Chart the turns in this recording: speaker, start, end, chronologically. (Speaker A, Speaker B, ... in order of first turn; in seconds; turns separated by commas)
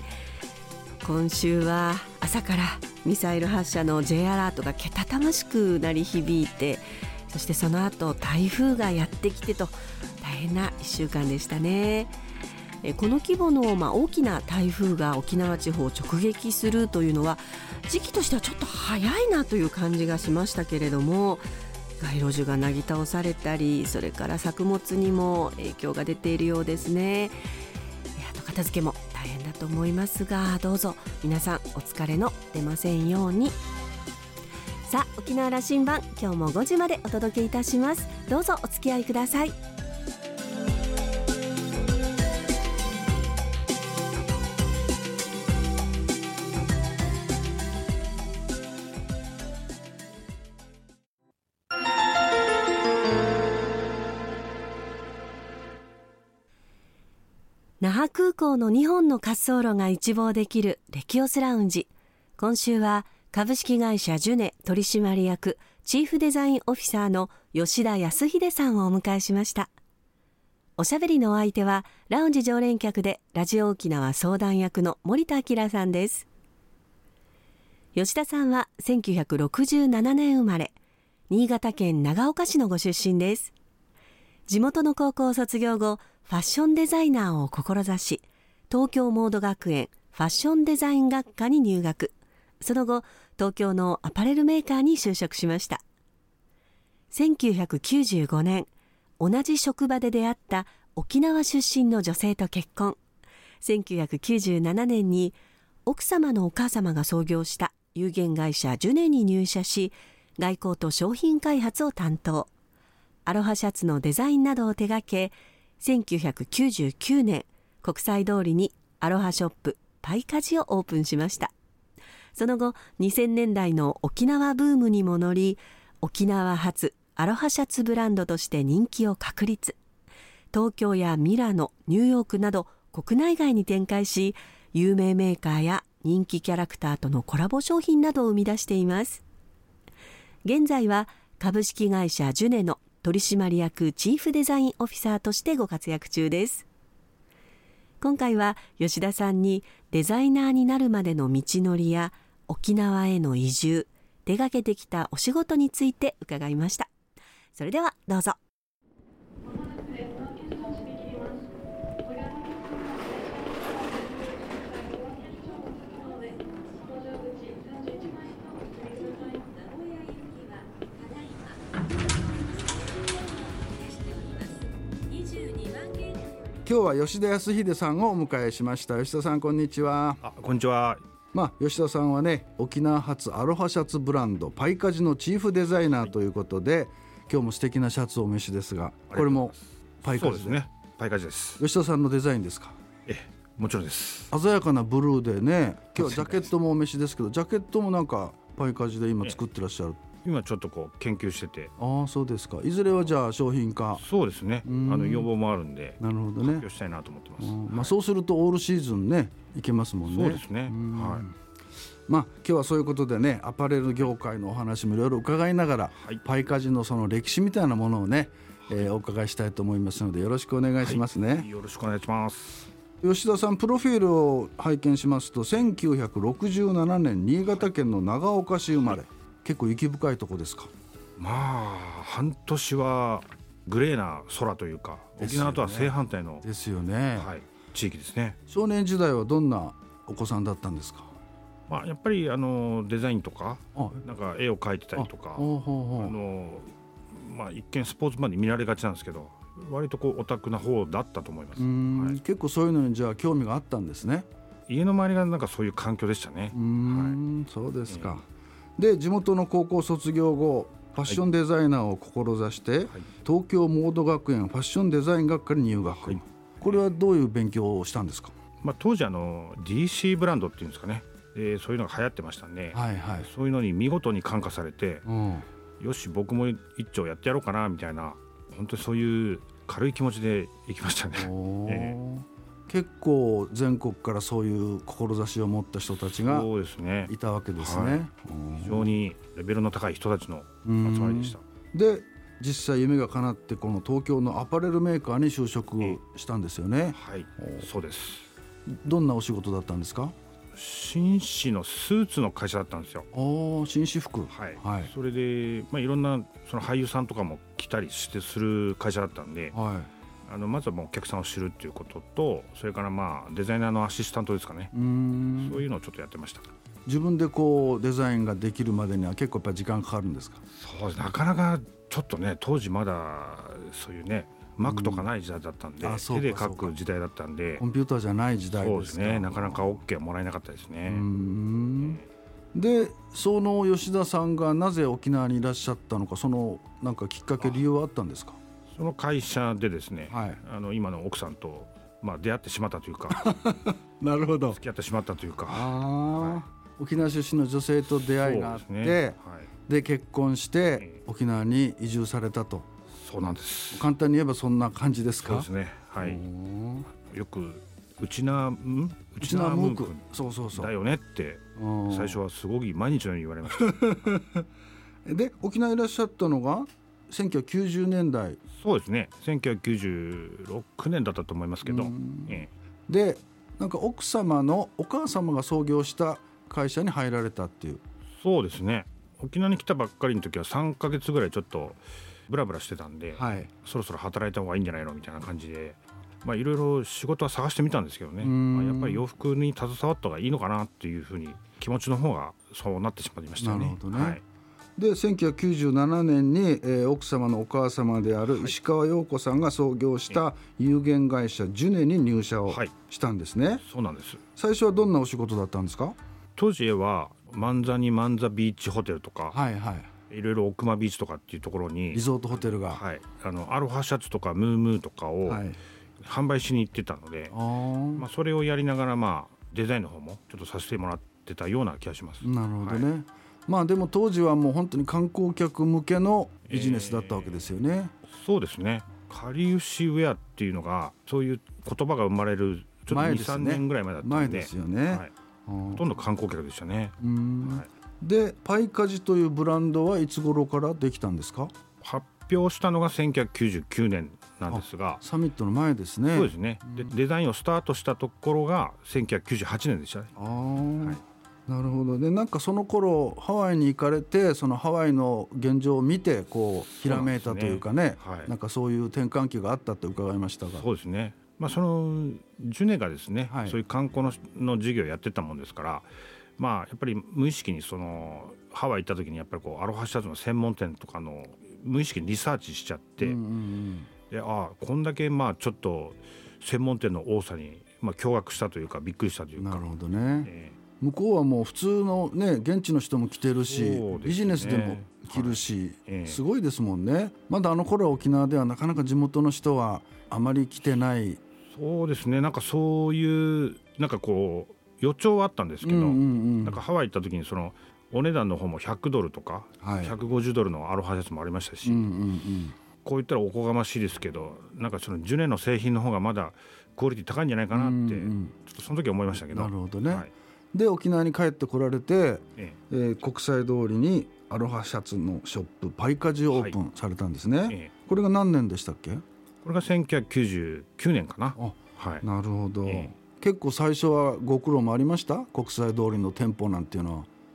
Speaker A: 1.0-12.1, Speaker A: 12.8-21.4, Speaker A: 22.0-27.3, Speaker A: 28.1-33.6, Speaker A: 34.8-39.5, Speaker A: 57.8-69.7, Speaker A: 70.8-76.2, Speaker A: 77.9-80.7, Speaker A: 81.3-83.5, Speaker A: 84.5-95.8, Speaker A: 97.1-98.7, Speaker A: 99.2-103.0, Speaker A: 103.6-112.5, Speaker A: 113.2-121.5, Speaker A: 122.3-129.8, Speaker A: 130.5-139.2, Speaker A: 140.4-146.7, Speaker A: 148.0-156.9, Speaker A: 157.6-158.4, Speaker A: 165.9-166.3, Speaker A: 168.8-169.5, Speaker A: 170.8-171.5, Speaker A: 173.7-174.5, Speaker A: 175.1-176.1, Speaker B: 176.6-180.2, Speaker C: 180.2-181.0, Speaker B: 181.3-190.6, Speaker C: 189.1-191.6, Speaker B: 191.6-192.8, Speaker C: 193.1-194.3, Speaker B: 194.3-200.0, Speaker C: 196.0-196.5, Speaker C: 200.2-201.7, Speaker B: 201.8-204.0, Speaker C: 204.0-207.9, Speaker B: 204.6-205.3, Speaker B: 206.0-206.7, Speaker B: 207.4-211.3, Speaker C: 210.1-211.2, Speaker B: 212.1-221.5, Speaker C: 216.0-216.2, Speaker C: 220.8-222.7, Speaker B: 223.0-230.7, Speaker C: 231.2-236.4, Speaker B: 235.2-237.3, Speaker C: 237.2-238.4, Speaker B: 238.5-241.1, Speaker C: 241.7-245.5, Speaker B: 243.8-244.0, Speaker B: 244.9-246.1, Speaker C: 246.0-252.2, Speaker B: 251.6-254.3, Speaker C: 254.7-257.2, Speaker B: 256.5-258.2, Speaker C: 257.9-258.1, Speaker B: 258.8-268.3, Speaker C: 265.9-266.8, Speaker C: 268.6-275.0, Speaker B: 272.7-273.3, Speaker B: 275.1-275.5, Speaker C: 275.8-282.0, Speaker B: 281.1-286.5, Speaker C: 286.1-288.0, Speaker B: 287.1-288.9, Speaker C: 288.6-291.4, Speaker B: 290.6-297.7, Speaker C: 296.9-298.3, Speaker B: 298.7-300.1, Speaker C: 300.5-303.1, Speaker B: 303.1-304.9, Speaker C: 304.3-309.5, Speaker B: 309.5-309.9, Speaker C: 310.3-314.7, Speaker B: 314.7-315.6, Speaker C: 315.4-316.5, Speaker B: 316.9-320.4, Speaker C: 320.5-327.6, Speaker B: 324.6-325.1, Speaker B: 325.8-326.7, Speaker B: 327.6-329.8, Speaker C: 328.6-331.0, Speaker B: 330.9-332.0, Speaker B: 332.5-338.4, Speaker C: 338.7-343.2, Speaker B: 340.1-340.4, Speaker B: 343.1-344.6, Speaker C: 344.5-346.4, Speaker B: 345.5-352.7, Speaker C: 348.2-349.5, Speaker C: 352.9-353.9, Speaker B: 353.7-356.9, Speaker C: 355.2-356.2, Speaker C: 357.1-363.8, Speaker B: 359.2-360.7, Speaker B: 361.6-362.2, Speaker B: 363.5-364.4, Speaker B: 365.1-368.4, Speaker C: 368.6-372.5, Speaker B: 371.6-377.8, Speaker C: 378.2-394.2, Speaker B: 383.1-383.5, Speaker B: 388.2-389.0, Speaker B: 393.4-394.2, Speaker B: 394.8-403.6, Speaker C: 398.3-398.5, Speaker C: 403.6-404.2, Speaker B: 404.4-406.0, Speaker C: 406.4-409.4, Speaker B: 409.3-409.9, Speaker C: 410.1-415.4, Speaker B: 411.9-412.8, Speaker B: 415.2-415.6, Speaker C: 416.0-417.3, Speaker B: 417.3-418.1, Speaker C: 417.9-422.9, Speaker B: 422.2-427.9, Speaker C: 426.5-427.5, Speaker C: 428.1-435.1, Speaker B: 432.9-435.8, Speaker C: 435.7-437.7, Speaker B: 437.0-441.5, Speaker C: 441.8-445.0, Speaker B: 444.5-446.8, Speaker C: 446.1-450.1, Speaker B: 450.1-460.6, Speaker C: 456.8-458.3, Speaker C: 460.6-473.2, Speaker B: 463.3-463.6, Speaker B: 473.0-473.9, Speaker C: 474.1-479.7, Speaker B: 479.4-491.2, Speaker C: 480.2-480.6, Speaker C: 483.4-486.2, Speaker C: 491.5-501.9, Speaker B: 495.6-496.6, Speaker B: 499.6-499.9, Speaker B: 501.6-502.6, Speaker C: 502.8-510.1, Speaker B: 507.5-508.3, Speaker B: 509.3-519.0, Speaker C: 519.4-522.0, Speaker B: 521.4-527.1, Speaker C: 522.6-522.9